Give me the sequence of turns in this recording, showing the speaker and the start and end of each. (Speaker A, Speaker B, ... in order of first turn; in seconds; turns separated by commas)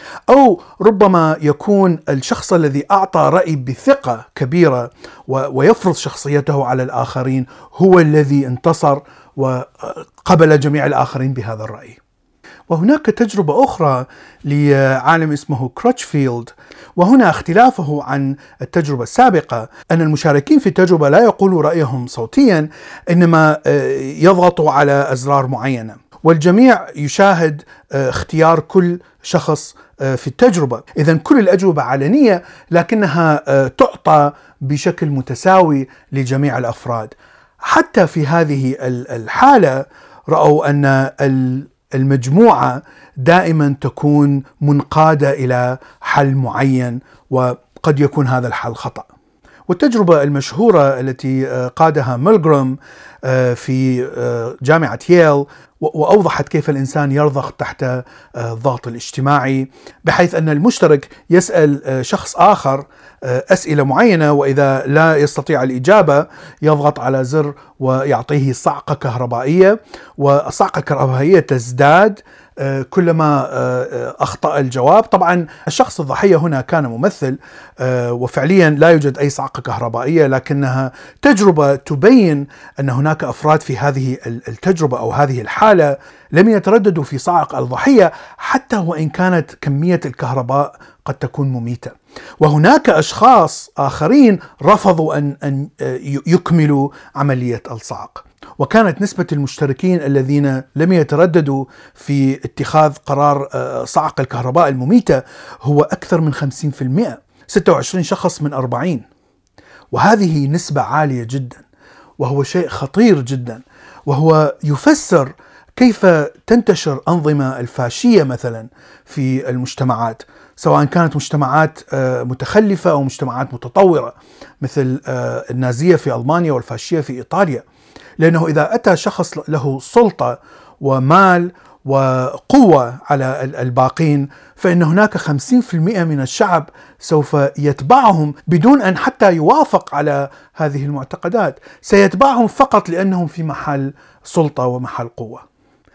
Speaker A: 0.3-12.0, Speaker A: 12.7-49.1, Speaker A: 49.7-109.0, Speaker A: 109.9-111.6, Speaker A: 112.2-127.7, Speaker A: 128.2-145.4